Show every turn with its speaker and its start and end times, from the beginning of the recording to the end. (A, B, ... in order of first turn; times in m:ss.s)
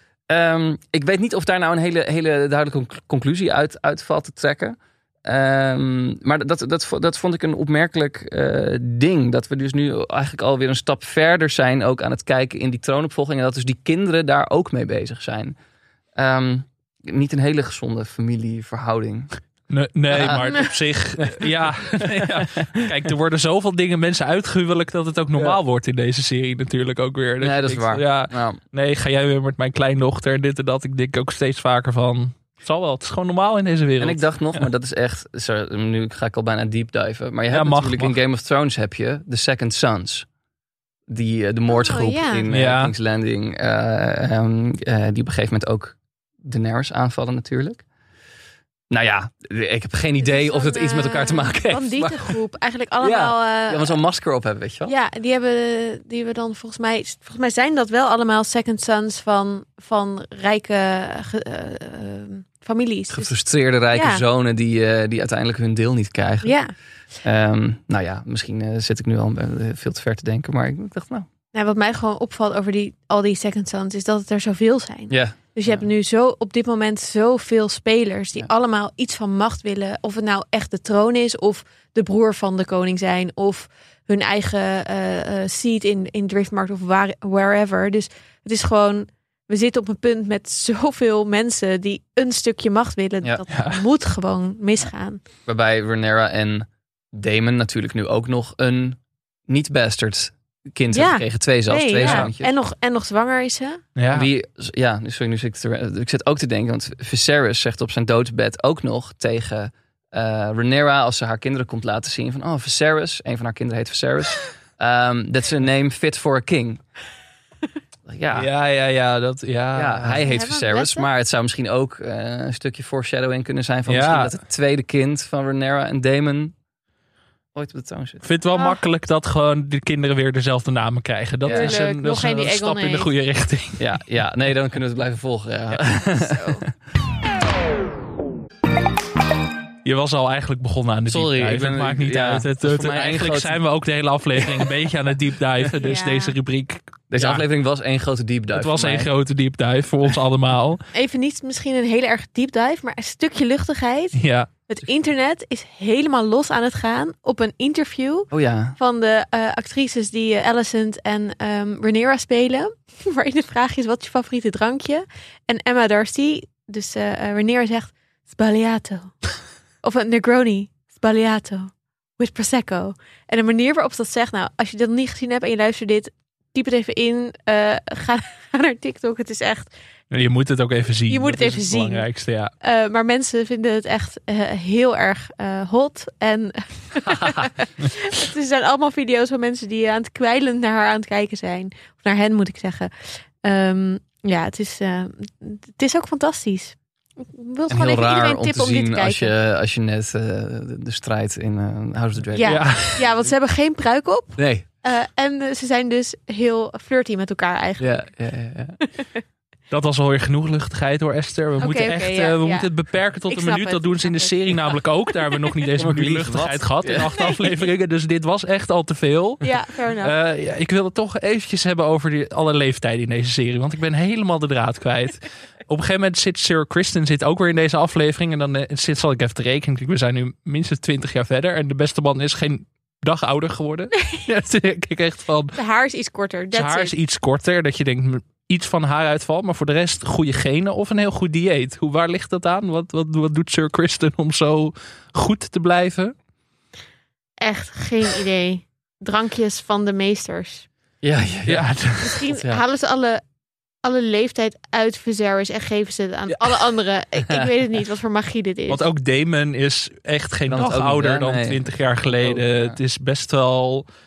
0:00.3-0:15.5 A
0:16.1-0:19.4 A
0:19.7-0:34.6 B
0:20.1-0:22.9 A
0:27.4-0:28.6 A
0:34.0-0:40.3 A
0:37.5-0:38.2 B
0:41.1-0:47.8 A
0:41.7-0:42.5 C
0:42.5-0:42.9 B
0:48.9-0:52.4 A
0:50.2-0:54.0 C
0:53.0-0:54.9 A
0:54.8-1:04.2 C
1:03.1-1:06.6 A
1:06.4-1:06.7 C
1:07.2-1:11.2 A
1:11.5-1:35.2 C
1:15.1-1:15.8 A
1:33.5-1:33.8 B
1:35.4-1:42.5 A
1:40.9-1:43.8 C
1:42.0-1:42.3 B
1:44.0-1:44.3 B
1:44.1-1:56.8 A
1:58.0-1:58.5 A
1:58.3-2:00.2 B
1:59.7-2:06.5 A
2:00.2-2:01.1 C
2:03.9-2:04.4 B
2:07.5-2:08.2 A
2:08.2-2:14.0 B
2:08.5-2:08.8 C
2:11.4-2:11.8 A
2:11.5-2:13.1 C
2:13.8-2:16.4 A
2:16.0-2:16.7 C
2:19.8-2:27.4 B
2:21.1-2:23.6 A
2:25.8-2:26.3 C
2:27.1-2:29.1 A
2:28.5-2:30.8 B
2:30.9-2:59.7 C
2:34.2-2:34.5 B
2:38.3-2:38.8 A
3:00.1-3:02.5 B
3:01.1-3:19.3 C
3:07.2-3:07.5 A
3:17.7-3:23.3 A
3:22.3-3:28.1 C
3:22.4-3:23.0 B
3:24.3-3:24.6 A
3:27.8-3:28.8 A
3:28.8-3:29.2 C
3:29.7-3:55.6 B
3:31.6-3:34.9 C
3:35.8-3:37.1 A
3:39.4-3:40.1 C
3:55.5-3:56.9 C
3:56.5-4:06.1 B
4:07.4-4:10.7 C
4:11.0-4:12.6 A
4:11.5-4:12.2 B
4:12.0-4:13.2 C
4:13.8-4:18.9 C
4:16.3-4:16.6 B
4:18.7-4:23.9 B
4:20.5-4:22.8 A